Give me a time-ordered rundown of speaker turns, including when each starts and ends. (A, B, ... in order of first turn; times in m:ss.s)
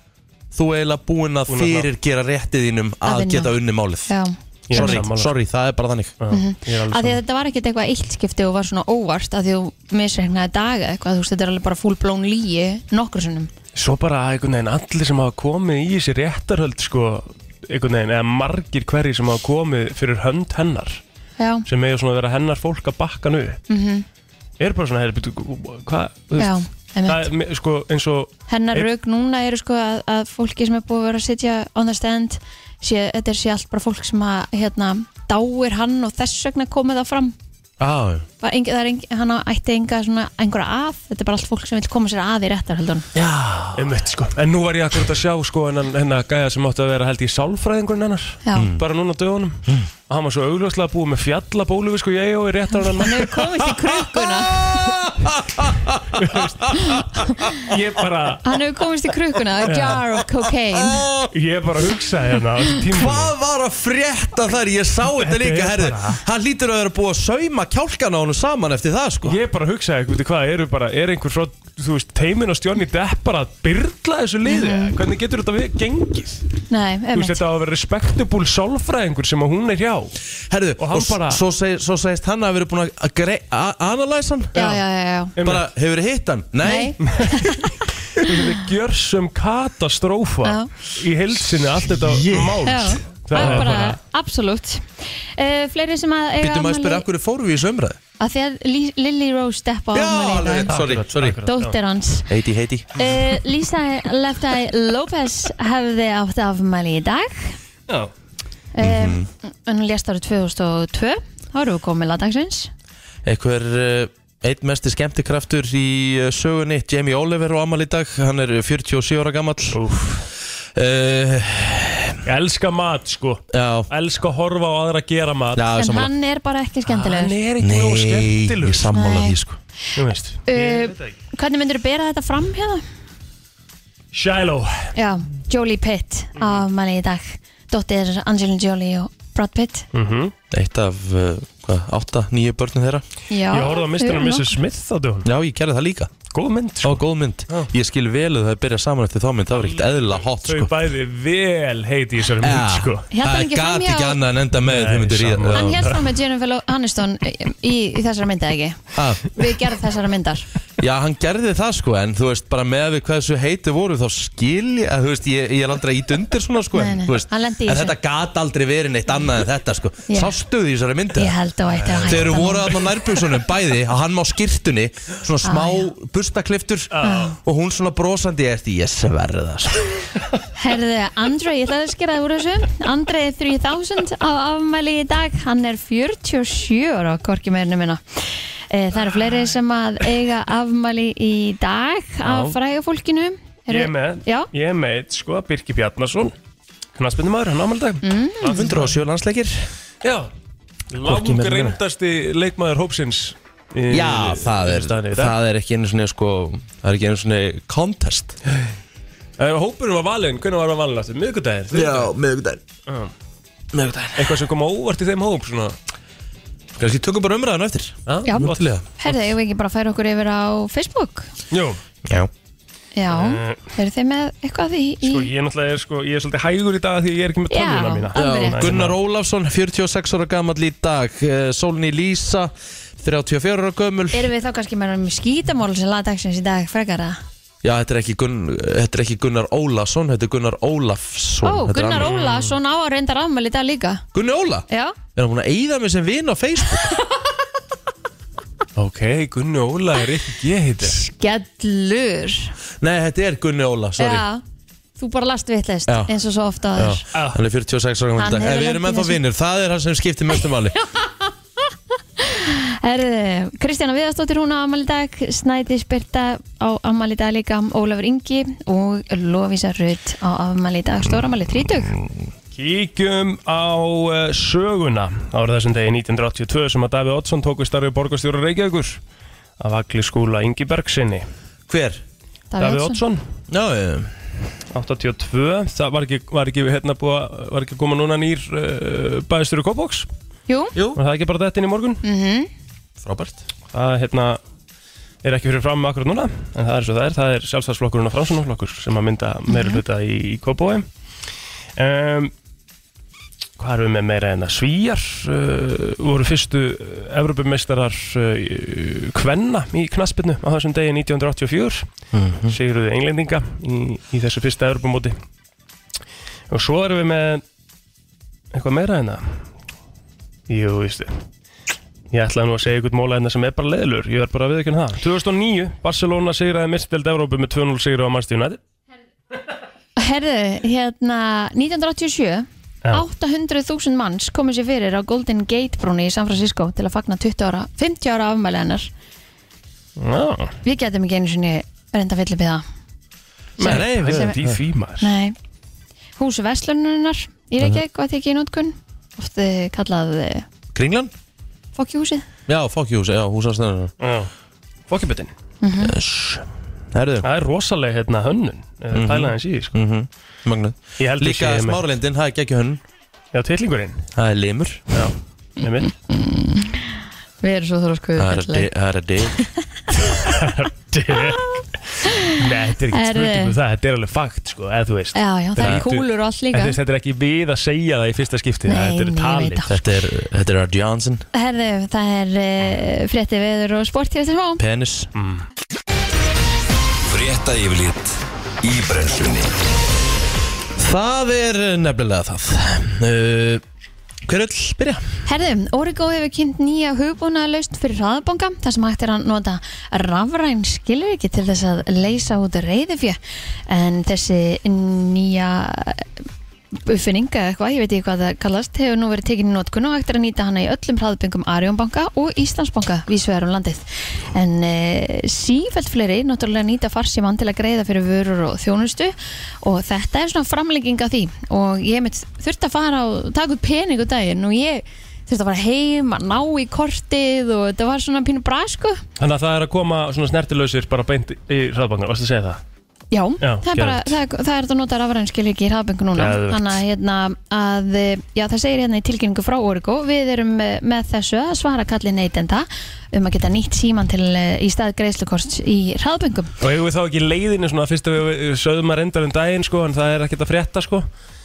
0:00.5-0:04.1 A
0:01.5-0:01.9 B
0:03.0-0:03.5 C
0:04.1-0:05.0 C
0:04.7-0:05.3 B
0:04.7-0:06.1 A
0:06.2-0:07.2 B
0:06.3-0:13.5 C
0:13.7-0:21.0 B
0:21.4-0:21.6 C
0:21.7-0:23.6 B
0:23.7-0:24.0 C
0:24.6-0:28.9 B
0:26.4-0:27.3 C
0:28.5-0:37.3 C
0:37.8-0:38.2 A
0:38.4-0:43.1 C
0:43.2-0:43.7 A
0:43.7-0:53.4 B
0:48.5-0:48.8 A
0:52.9-0:54.8 C
0:54.1-0:57.0 A
0:56.2-0:57.0 B
0:56.8-0:57.5 C
0:57.7-0:58.4 B
0:58.4-1:01.1 C
0:59.6-1:00.0 B
1:01.3-1:03.3 B
1:02.8-1:09.4 A
1:05.1-1:06.2 B
1:09.2-1:16.4 B
1:14.4-1:14.9 C
1:16.7-1:17.4 C
1:17.1-1:20.1 B
1:20.5-1:24.6 A
1:20.8-1:21.4 B
1:24.5-1:25.3 C
1:24.6-1:24.8 B
1:25.4-1:25.6 B
1:25.4-1:27.0 A
1:26.6-1:27.7 C
1:27.1-1:27.5 B
1:28.2-1:34.0 B
1:28.2-1:28.5 C
1:30.4-1:30.7 C
1:31.9-1:32.7 A
1:32.6-1:37.0 C
1:33.3-1:33.7 A
1:36.4-1:38.0 A
1:38.2-1:40.8 C
1:39.9-1:41.4 A
1:40.6-1:41.8 B
1:41.4-1:42.3 C
1:42.3-1:43.0 A
1:43.0-1:47.6 C
1:48.7-1:52.7 C
1:48.8-1:49.3 A
1:53.2-1:59.8 A
1:59.7-2:00.2 B
2:00.8-2:02.2 A
2:02.2-2:05.6 B
2:03.5-2:03.9 A
2:05.5-2:06.1 A
2:05.8-2:07.3 C
2:06.8-2:08.9 B
2:07.6-2:09.6 A
2:08.9-2:09.4 C
2:10.0-2:11.2 B
2:10.5-2:12.8 C
2:14.1-2:14.9 B
2:15.0-2:19.9 C
2:16.4-2:16.6 B
2:19.9-2:20.3 B
2:20.5-2:23.0 A
2:23.3-2:24.5 C
2:23.5-2:25.3 B
2:25.2-2:26.1 A
2:26.3-2:27.7 B
2:26.8-2:30.7 A
2:29.5-2:33.0 B
2:32.4-2:35.9 A
2:33.1-2:34.2 C
2:34.6-2:36.0 B
2:35.5-2:40.5 C
2:38.9-2:39.2 A
2:40.8-2:51.3 A
2:46.7-2:47.9 C
2:50.1-2:50.3 C
2:51.2-2:52.8 C
2:51.8-2:52.3 B
2:52.0-2:59.8 A
2:55.4-2:55.9 C
2:56.9-2:57.2 B
2:57.0-2:57.3 C
3:00.6-3:14.5 C
3:12.2-3:12.6 B
3:13.7-3:16.3 B
3:17.0-3:19.0 B
3:18.0-3:18.7 C
3:18.5-3:19.7 A
3:20.0-3:20.3 B
3:20.9-3:25.3 B
3:21.0-3:21.8 A
3:23.9-3:28.4 A
3:29.4-3:32.1 B
3:31.7-3:32.6 A
3:33.7-3:34.4 A
3:34.2-3:35.8 B
3:36.8-3:38.8 A
3:38.1-3:39.2 B
3:38.2-3:41.3 C
3:41.5-3:41.8 B
3:43.0-3:45.3 C
3:43.1-3:43.6 B
3:45.0-3:48.9 B
3:47.5-3:48.7 C
3:48.1-3:54.3 A
3:54.1-3:57.2 C
3:57.6-4:02.1 A
4:01.4-4:04.0 C
4:02.0-4:02.6 B
4:04.1-4:07.0 A
4:04.7-4:05.0 C
4:08.8-4:11.0 B
4:10.8-4:12.5 C
4:12.8-4:14.2 A
4:14.0-4:14.4 C
4:15.0-4:17.0 C
4:15.9-4:16.1 A
4:16.8-4:20.8 A
4:17.1-4:17.4 B
4:18.2-4:19.2 C
4:22.2-4:32.0 C
4:32.5-4:39.0 B
4:39.6-4:41.3 B
4:41.7-4:42.0 A
4:42.5-4:43.0 C
4:42.6-4:43.2 B
4:43.5-4:44.1 A
4:44.7-4:50.1 B
4:50.5-4:50.7 C
4:50.9-4:52.0 B
4:52.0-4:52.5 C
4:53.0-4:53.4 A
4:53.7-4:54.4 B
4:55.2-5:00.8 B
4:59.5-4:59.8 C
5:01.8-5:02.3 B
5:03.6-5:11.8 B
5:12.1-5:12.5 A
5:12.5-5:15.2 B
5:16.5-5:17.4 B
5:18.5-5:19.4 B
5:20.5-5:21.1 B
5:22.1-5:28.6 B
5:30.0-5:38.9 C
5:40.0-5:40.6 B
5:40.6-5:42.6 C
5:43.6-5:45.1 B
5:43.6-5:44.4 C
5:43.6-5:44.4 A
5:45.0-5:45.4 C
5:46.2-5:50.4 C
5:50.7-5:51.1 A
5:51.8-5:52.2 C
5:52.5-5:53.9 A
5:54.0-5:54.3 B
5:54.9-5:55.3 B
5:55.6-5:55.9 C
5:55.8-5:57.2 A
5:57.2-5:59.7 B
5:58.9-6:02.8 A
6:01.0-6:01.8 B
6:03.3-6:04.0 B
6:04.2-6:04.9 A
6:04.9-6:05.9 B
6:05.6-6:08.7 C
6:08.2-6:09.4 A
6:10.0-6:11.6 B
6:12.0-6:12.4 C
6:12.2-6:19.7 B
6:12.9-6:13.5 C
6:15.1-6:16.8 C
6:18.7-6:19.8 C
6:19.7-6:21.2 A
6:21.3-6:24.6 C
6:24.6-6:25.1 A
6:25.2-6:25.4 B
6:27.1-6:29.5 D
6:30.8-6:33.6 A
6:34.3-6:35.0 A
6:35.2-6:46.0 C
6:46.8-7:09.0 C
7:09.2-7:12.6 B
7:13.1-7:26.5 C
7:13.4-7:14.1 B
7:16.2-7:16.8 B
7:26.6-7:31.0 B